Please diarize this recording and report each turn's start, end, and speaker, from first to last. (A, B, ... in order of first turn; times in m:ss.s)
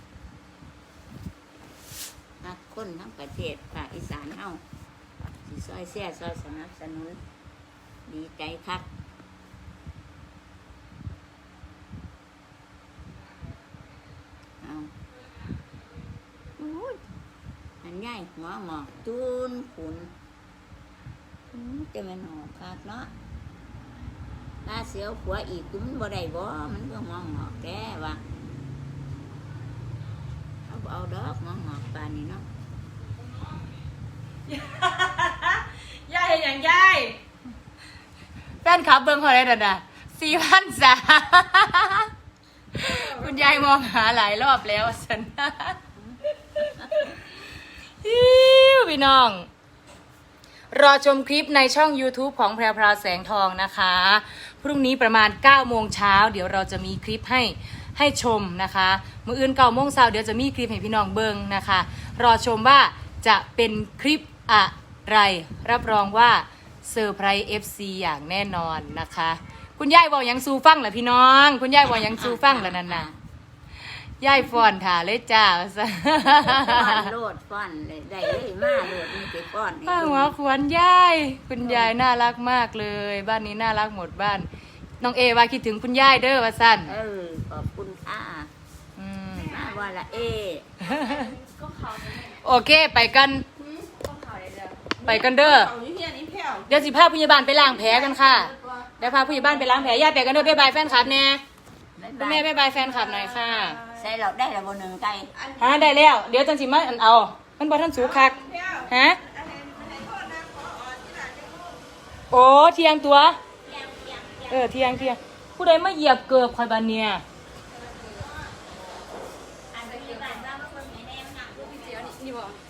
0:02.4-0:04.6 A
0:05.5-0:07.2 A
0:08.1-0:08.9 A
0:14.6-0:14.9 A
0:16.6-0:17.0 A
0:17.8-0:20.1 A
0:21.5-0:23.1 A
0:24.6-0:28.2 A
0:30.7-0:32.5 A
0:34.5-0:37.2 B
0:38.6-0:42.1 B
0:42.7-0:45.8 B
0:46.6-0:49.5 B
0:50.7-1:13.1 B
1:11.8-1:13.2 A
1:14.2-1:17.1 B
1:16.2-1:20.4 A
1:19.9-1:24.5 B
1:21.6-1:21.9 A
1:25.0-1:27.0 B
1:26.9-1:28.5 A
1:29.0-1:29.6 B
1:29.4-1:30.7 A
1:30.8-1:31.4 B
1:32.0-1:33.5 B
1:33.7-1:36.7 C
1:35.0-1:35.8 B
1:36.7-1:41.4 B
1:42.0-1:42.5 A
1:42.2-1:43.8 B
1:43.9-1:45.4 A
1:45.6-1:49.2 B
1:48.5-1:51.8 C
1:52.3-1:53.4 B
1:53.6-1:55.1 A
1:54.5-1:57.2 B
1:59.7-2:02.5 A